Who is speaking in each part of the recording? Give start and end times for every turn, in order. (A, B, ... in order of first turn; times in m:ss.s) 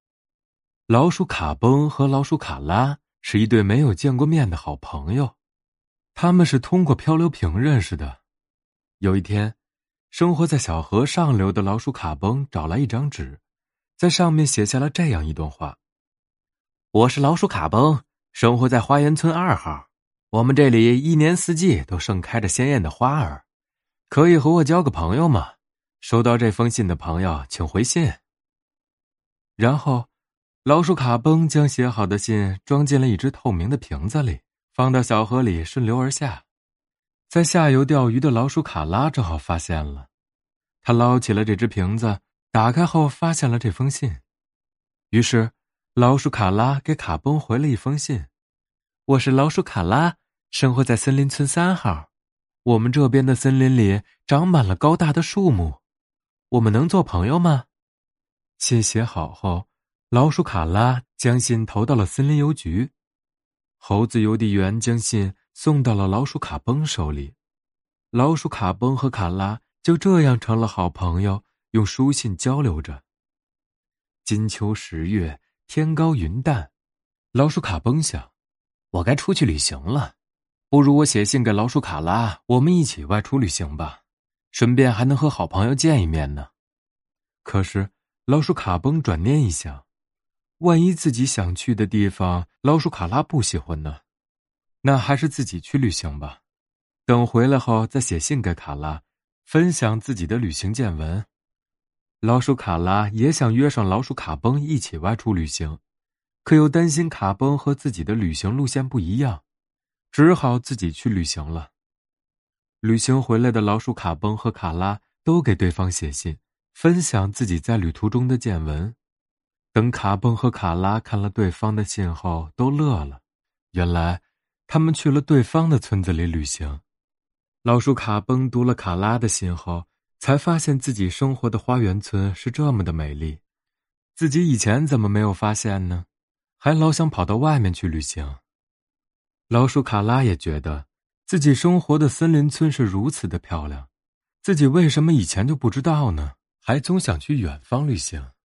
0:00.9-0:05.4 A
0:06.2-0:08.2 A
0:09.0-0:09.6 A
0:10.1-0:13.4 A
0:14.0-0:15.8 A
0:16.9-0:23.4 A
0:24.1-0:28.2 A
0:29.6-0:30.1 A
0:30.6-0:36.4 A
0:37.3-0:40.1 A
0:40.8-0:44.2 A
0:45.1-0:48.3 A
0:49.1-0:52.1 A
0:52.6-0:55.8 A
0:56.5-0:57.7 A
0:58.6-1:02.9 A
1:03.8-1:07.4 A
1:08.1-1:13.0 A
1:14.2-1:16.7 A
1:17.3-1:18.3 A
1:18.9-1:20.1 A
1:20.7-1:24.0 A
1:24.5-1:26.5 A
1:27.4-1:29.8 A
1:30.6-1:34.0 A
1:34.8-1:36.4 A
1:37.1-1:41.3 A
1:42.2-1:45.8 A
1:46.4-1:49.4 A
1:50.1-1:51.7 A
1:52.8-1:59.0 A
1:59.7-2:03.2 A
2:03.7-2:06.8 A
2:07.6-2:13.4 A
2:14.2-2:16.1 A
2:16.6-2:18.4 A
2:19.5-2:23.9 A
2:24.4-2:28.3 A